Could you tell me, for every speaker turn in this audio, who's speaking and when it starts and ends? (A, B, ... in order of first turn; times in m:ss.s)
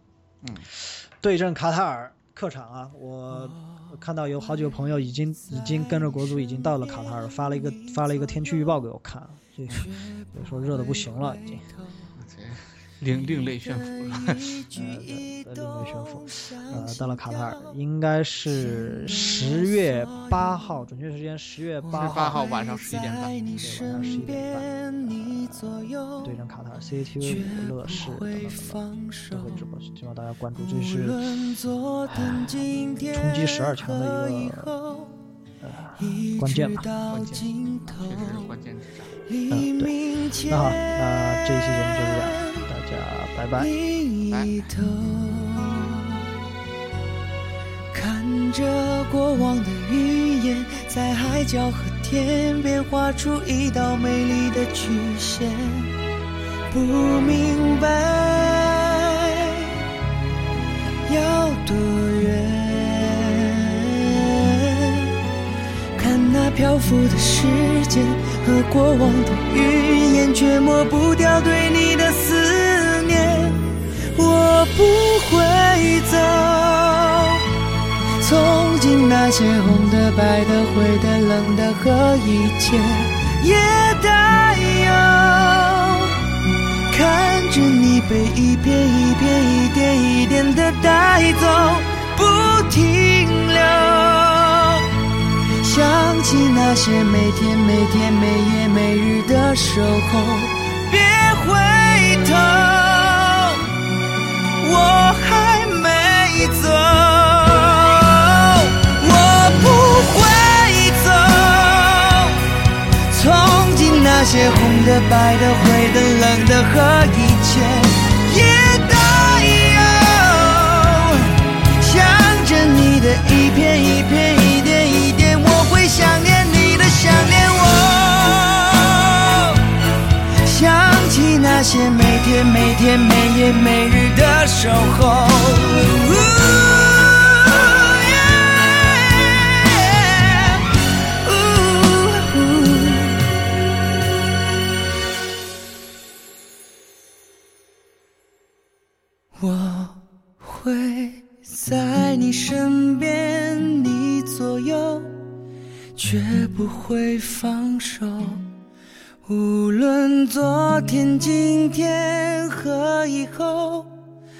0:00.4-0:00.7 A
0:00.8-0:11.6 B
0:03.5-0:03.9 C
0:05.5-0:08.8 C
0:09.7-0:12.1 C
0:12.1-0:14.6 A
0:13.0-0:17.8 C
0:14.7-0:22.4 B
0:18.5-0:20.7 C
0:21.8-0:26.4 C
0:21.9-0:23.4 A
0:23.6-0:25.6 B
0:26.2-0:31.2 B
0:27.2-0:29.6 C
0:30.6-0:35.2 C
0:32.1-0:34.7 B
0:35.6-0:36.9 B
0:36.0-0:38.5 C
0:37.1-0:39.2 A
0:39.2-0:42.6 C
0:39.5-0:39.9 B
0:40.4-0:43.7 B
0:43.6-0:46.3 C
0:47.9-0:56.0 C
0:56.7-0:59.8 C
1:01.1-1:05.1 C
1:06.0-1:17.4 C
1:18.2-1:26.2 C
1:26.9-1:34.9 C
1:35.6-1:43.7 C
1:44.6-1:52.4 C
1:53.1-2:09.6 C
2:10.4-2:23.3 C
2:29.4-2:35.2 C
2:35.9-2:38.5 C
2:39.2-2:44.0 C